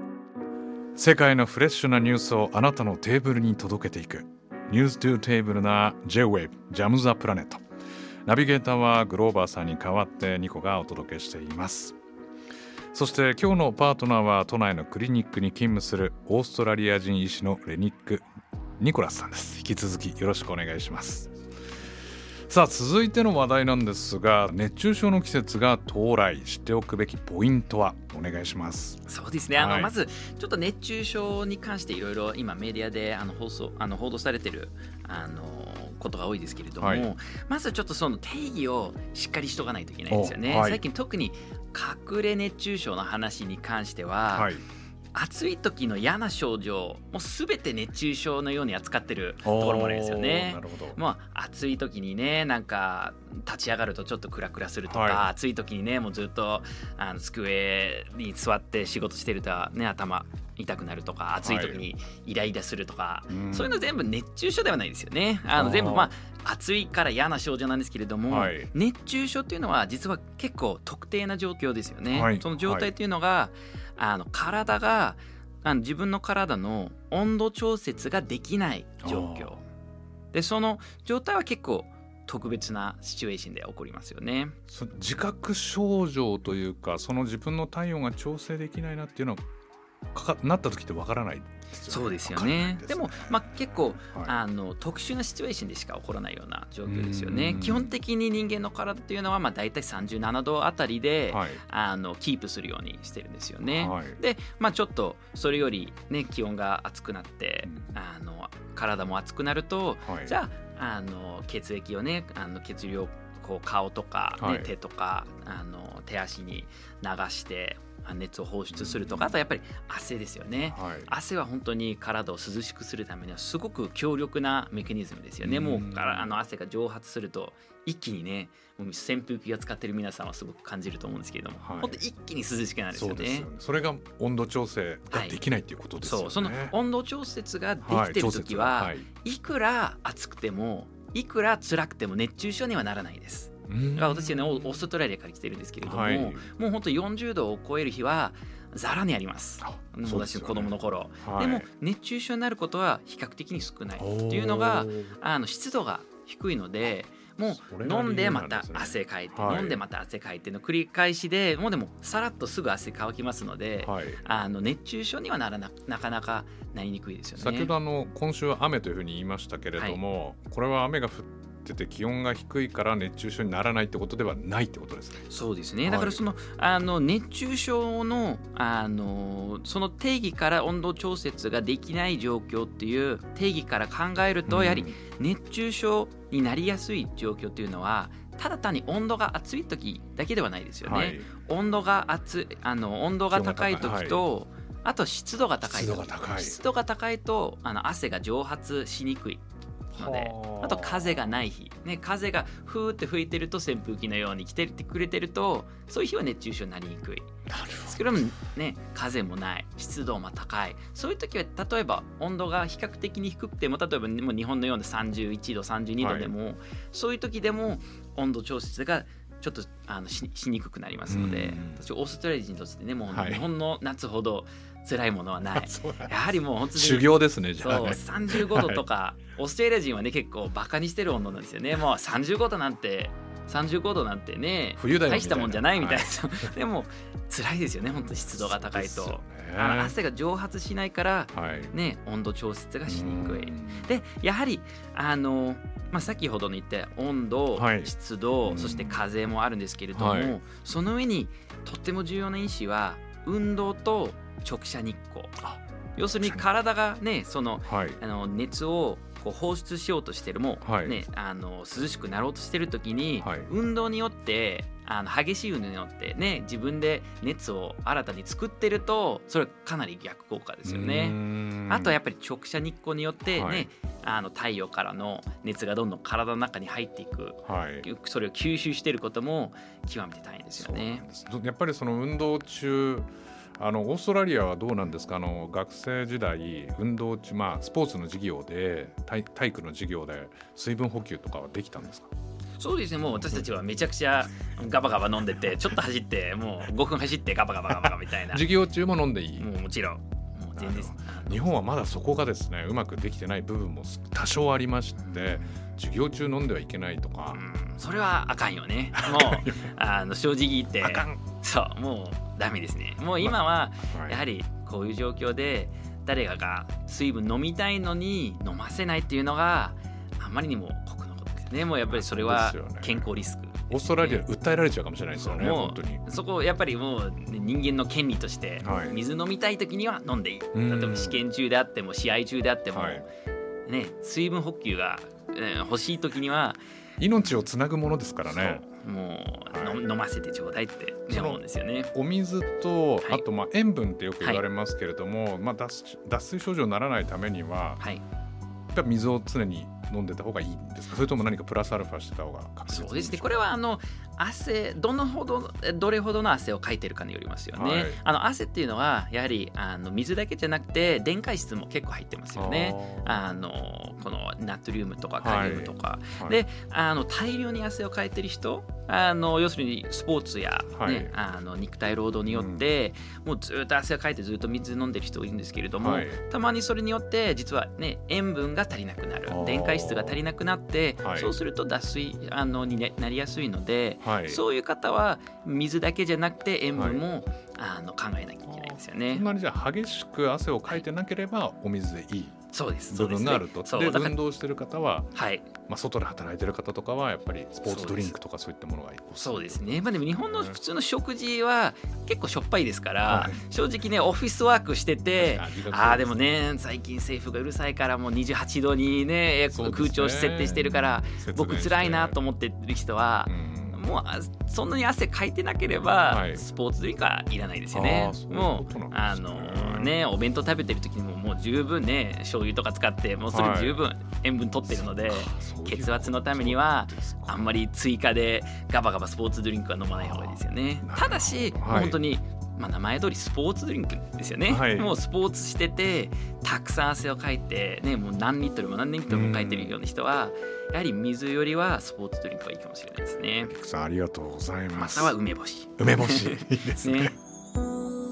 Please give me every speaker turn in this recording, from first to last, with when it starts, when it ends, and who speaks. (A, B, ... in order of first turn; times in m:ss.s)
0:01.0-0:07.6 A
0:08.3-0:12.0 A
0:12.9-0:18.2 A
0:18.8-0:21.3 A
0:22.5-0:29.0 A
0:29.1-0:44.5 B
0:29.5-0:29.9 A
0:36.8-0:37.1 A
0:40.1-0:40.8 A
0:44.3-0:44.6 A
0:45.1-1:19.6 B
0:49.4-0:51.0 A
0:54.9-0:55.3 A
1:01.4-1:01.8 A
1:03.3-1:03.8 A
1:05.5-1:06.1 A
1:08.3-1:08.7 A
1:12.1-1:12.9 A
1:19.0-1:19.6 A
1:20.3-1:24.6 B
1:24.7-1:29.4 A
1:30.1-1:33.4 A
1:31.9-2:13.5 B
1:34.1-1:34.4 A
1:36.9-1:37.9 A
1:41.3-1:41.6 A
1:43.7-1:44.2 A
1:50.0-1:50.4 A
1:54.4-1:54.7 A
1:58.7-1:59.4 A
2:00.7-2:01.1 A
2:05.4-2:06.3 A
2:11.6-2:12.0 A
2:12.9-2:16.8 A
2:15.1-2:15.4 B
2:16.0-2:47.7 B
2:17.8-2:19.1 A
2:23.7-2:24.9 A
2:25.8-2:26.5 A
2:29.6-2:31.7 A
2:34.0-2:35.2 A
2:37.4-2:39.8 A
2:43.8-2:44.2 A
2:47.4-2:55.3 A
2:55.3-3:19.4 B
2:55.8-2:56.2 A
3:04.5-3:05.0 A
3:10.8-3:11.3 A
3:13.3-3:14.2 A
3:15.6-3:16.6 A
3:19.9-3:21.3 A
3:20.0-4:15.4 B
3:27.5-3:28.1 A
3:36.0-3:36.3 A
3:41.1-3:41.8 A
3:43.1-3:43.4 A
3:45.5-3:46.2 A
3:46.7-3:48.8 A
3:54.8-3:56.5 A
3:57.8-4:00.0 A
4:01.3-4:01.7 A
4:02.9-4:03.9 A
4:07.6-4:07.9 A
4:08.4-4:09.0 A
4:10.0-4:10.4 A
4:16.0-4:41.1 B
4:17.7-4:18.0 A
4:20.6-4:21.0 A
4:23.2-4:23.5 A
4:30.6-4:32.0 A
4:33.3-4:33.7 A
4:37.4-4:37.9 A
4:40.6-4:52.1 A
4:52.6-4:58.4 B
4:58.3-4:59.5 A
4:59.4-5:01.4 B
5:00.6-5:07.4 A
5:05.0-5:05.6 B
5:07.3-5:24.3 B
5:08.9-5:09.7 A
5:10.8-5:11.2 A
5:13.2-5:14.2 A
5:21.9-5:26.1 A
5:25.2-5:33.1 B
5:28.6-5:29.0 A
5:30.5-5:31.2 A
5:32.7-5:33.1 A
5:33.7-5:36.6 B
5:37.0-5:38.6 A
5:38.3-5:41.9 B
5:39.5-5:39.8 A
5:41.1-5:47.8 A
5:48.7-5:53.5 A
5:52.7-6:29.2 B
5:57.5-5:58.0 A
6:02.4-6:03.2 A
6:05.2-6:06.4 A
6:10.8-6:11.1 A
6:12.3-6:12.6 A
6:15.8-6:16.2 A
6:19.3-6:20.2 A
6:21.0-6:21.4 A
6:24.0-6:24.4 A
6:26.7-6:27.0 A
6:28.5-6:32.4 A
6:32.5-6:34.2 B
6:32.9-6:35.1 A
6:35.2-6:35.5 B
6:35.7-6:40.6 A
6:37.6-6:38.2 B
6:39.2-7:23.5 B
6:43.1-6:43.4 A
6:45.1-6:46.2 A
6:49.5-6:52.2 A
6:53.3-6:53.8 A
6:56.0-6:56.4 A
6:57.7-7:00.0 A
7:03.3-7:03.8 A
7:04.6-7:07.6 A
7:09.9-7:12.0 A
7:14.5-7:15.0 A
7:19.1-7:19.8 A
7:23.4-7:25.2 A
7:24.8-7:27.2 B
7:25.8-7:27.2 A